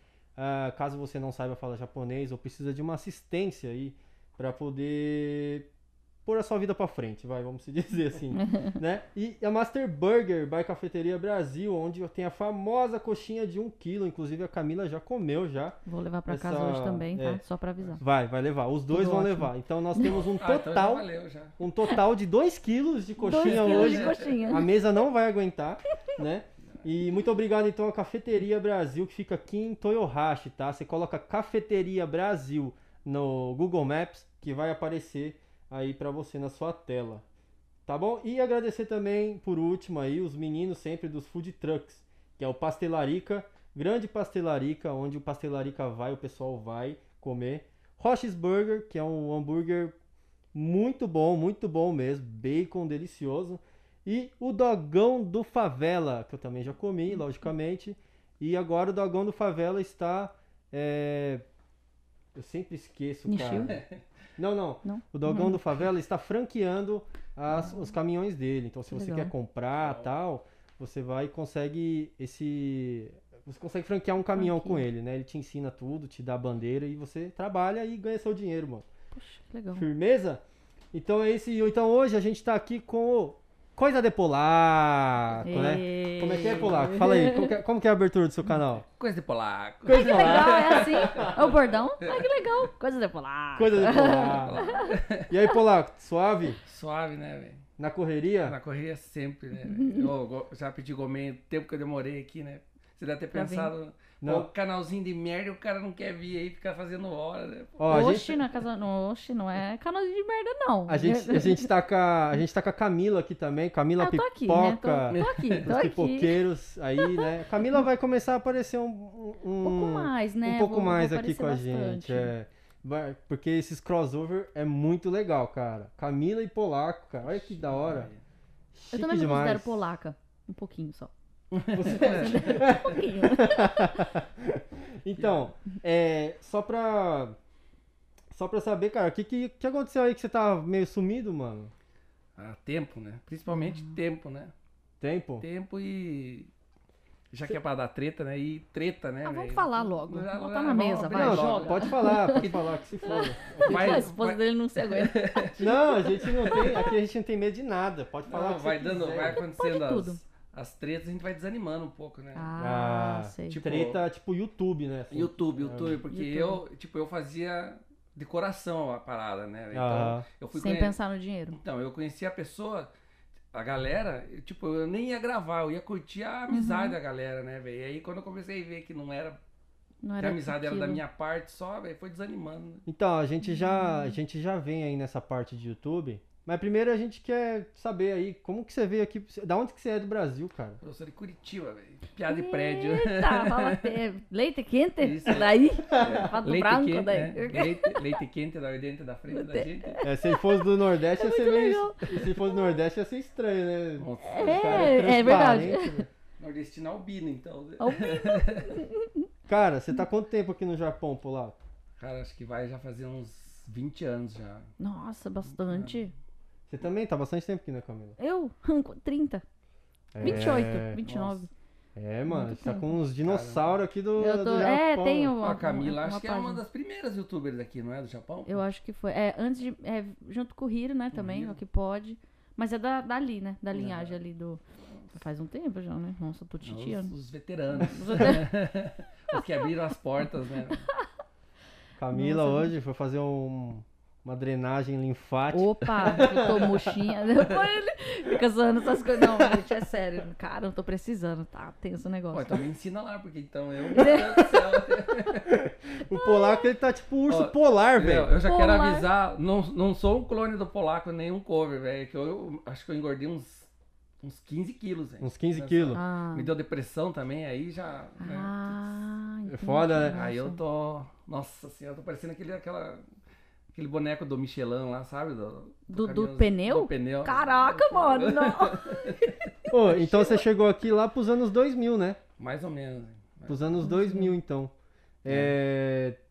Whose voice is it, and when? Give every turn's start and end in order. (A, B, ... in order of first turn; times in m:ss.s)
0:00.4-0:05.7 A
0:06.2-0:17.4 A
0:08.3-0:08.7 B
0:15.8-0:18.0 B
0:18.0-0:21.0 A
0:18.9-0:20.2 B
0:20.0-0:21.6 C
0:21.6-0:37.2 A
0:23.2-0:24.7 B
0:23.3-0:24.4 C
0:37.8-0:49.9 A
0:50.5-1:01.4 A
1:02.3-1:03.8 A
1:03.2-1:03.7 B
1:03.5-1:04.0 C
1:04.4-1:18.8 A
1:04.8-1:05.8 B
1:07.5-1:07.9 B
1:08.9-1:09.3 B
1:09.8-1:10.1 C
1:14.3-1:14.8 B
1:19.1-1:19.8 B
1:19.7-1:20.4 A
1:20.9-1:28.8 A
1:25.4-1:27.6 B
1:26.3-1:26.9 C
1:28.9-1:32.3 C
1:29.8-1:31.3 A
1:29.9-1:34.9 B
1:33.5-1:34.6 A
1:33.9-1:35.3 C
1:35.3-1:36.6 A
1:36.6-1:37.6 C
1:37.8-1:38.5 A
1:38.4-1:48.1 C
1:39.6-1:40.1 B
1:43.3-1:43.7 B
1:44.2-1:44.5 A
1:47.8-1:48.3 A
1:47.9-1:51.7 B
1:50.9-2:08.1 A
1:54.0-1:56.4 B
1:55.1-1:55.7 C
1:57.0-1:57.8 B
1:59.6-2:02.3 B
2:07.2-2:08.2 C
2:08.7-2:09.8 A
2:08.9-2:11.1 B
2:11.5-2:13.0 C
2:11.7-2:17.4 A
2:11.8-2:14.1 B
2:15.2-2:15.5 C
2:18.3-2:21.7 A
2:22.4-2:24.5 C
2:25.0-2:25.4 A
2:25.4-2:26.5 C
2:27.3-2:36.9 C
2:29.2-2:35.7 B
2:31.1-2:34.1 A
2:35.6-2:39.4 A
2:38.2-2:42.5 C
2:39.5-2:40.2 B
2:42.3-2:43.6 B
2:42.6-2:46.0 A
2:43.5-2:44.0 C
2:45.1-2:50.9 C
2:46.1-2:46.6 B
2:49.7-2:50.2 A
2:50.5-2:51.6 B
2:51.5-2:52.9 C
2:53.5-2:59.4 C
2:56.5-2:57.0 B
3:00.0-3:01.0 B
3:00.2-3:02.8 C
3:02.8-3:10.8 A
3:03.4-3:04.2 B
3:10.8-3:14.0 C
3:12.3-3:18.2 B
3:15.0-3:20.0 C
3:19.3-3:22.3 B
3:20.0-3:26.1 A
3:24.0-3:25.7 C
3:24.2-3:26.0 B
3:26.4-3:28.8 C
3:27.8-3:29.3 B
3:29.5-3:31.6 A
3:32.0-3:34.7 C
3:34.8-3:36.1 B
3:35.7-3:36.0 C
3:36.7-3:38.2 A
3:38.2-3:39.4 B
3:40.1-3:41.0 A
3:40.2-3:40.5 C
3:40.2-3:41.5 B
3:41.0-3:41.5 C
3:42.0-3:45.3 A
3:42.3-3:43.0 B
3:43.2-3:43.8 C
3:44.2-3:46.6 B
3:45.4-3:48.6 C
3:48.4-3:57.1 B
3:51.1-3:51.6 C
3:53.7-3:54.2 C
3:54.9-3:55.2 C
3:56.6-4:00.9 C
3:57.8-3:58.5 B
4:00.7-4:01.0 B
4:02.0-4:06.9 A
4:02.1-4:02.7 B
4:05.5-4:12.6 B
4:12.3-4:15.5 C
4:13.9-4:14.4 B
4:15.4-4:18.4 A
4:16.1-4:16.7 B
4:17.3-4:23.7 C
4:18.4-4:19.1 B
4:24.2-4:28.8 C
4:25.2-4:26.0 A
4:25.9-4:26.5 B
4:28.2-4:30.6 B
4:29.5-4:30.2 A
4:30.0-4:33.0 C
4:33.7-4:40.4 C
4:35.9-4:39.5 B
4:39.7-4:42.2 A
4:42.4-4:43.7 C
4:43.5-4:44.7 A
4:43.8-4:44.4 B
4:45.2-4:46.2 A
4:45.2-4:45.5 C